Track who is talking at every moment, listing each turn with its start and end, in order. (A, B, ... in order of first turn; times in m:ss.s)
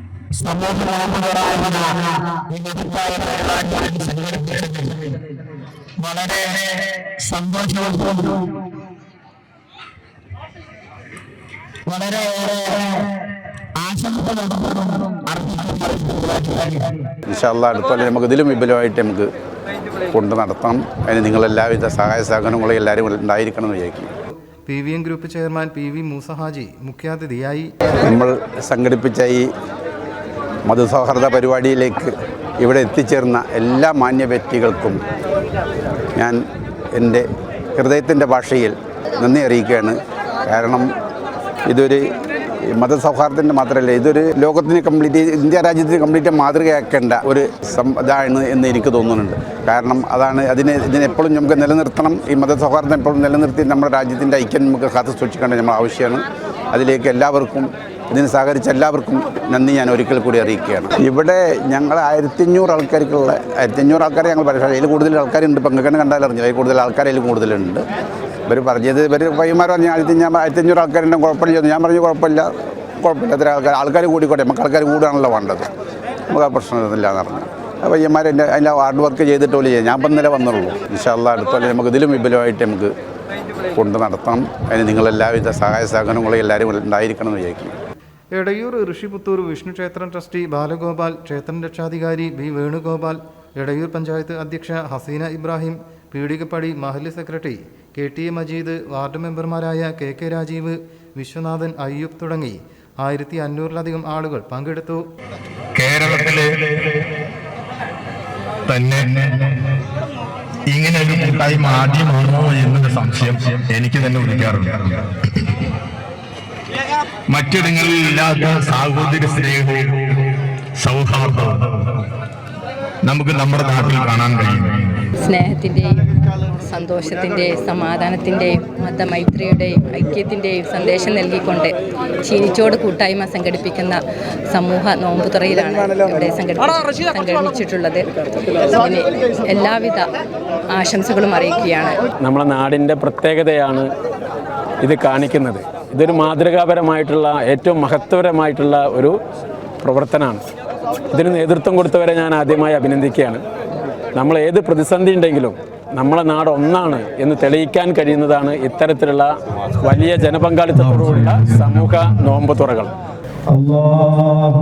0:00.4-0:05.0 A
0:06.0-0:08.5 A
0:12.0-0:13.0 A
0:13.8-0:16.8 A
0:17.2-0:19.3 B
0:20.1-0:24.1 B
0:24.6-0:27.7 C
0:28.0-0:29.5 B
0:30.6-0:35.0 B
0:36.2-0:36.4 B
0:36.9-0:40.9 B
0:41.7-0:42.1 B
0:42.7-1:07.8 B
1:08.5-1:12.5 B
1:13.0-1:15.7 B
1:16.3-1:22.9 B
1:23.7-1:27.7 B
1:28.3-1:45.0 C
1:45.7-1:46.8 D
1:48.7-1:49.5 D
1:50.7-1:55.2 D
1:57.3-2:00.2 D
2:00.8-2:01.9 D
2:03.0-2:05.1 D
2:05.2-2:18.0 E
2:18.6-2:20.1 E
2:20.7-2:22.0 E
2:22.2-2:23.9 F
2:24.8-2:29.1 F
2:29.8-2:30.4 F
2:31.1-2:33.4 F
2:34.1-2:42.9 F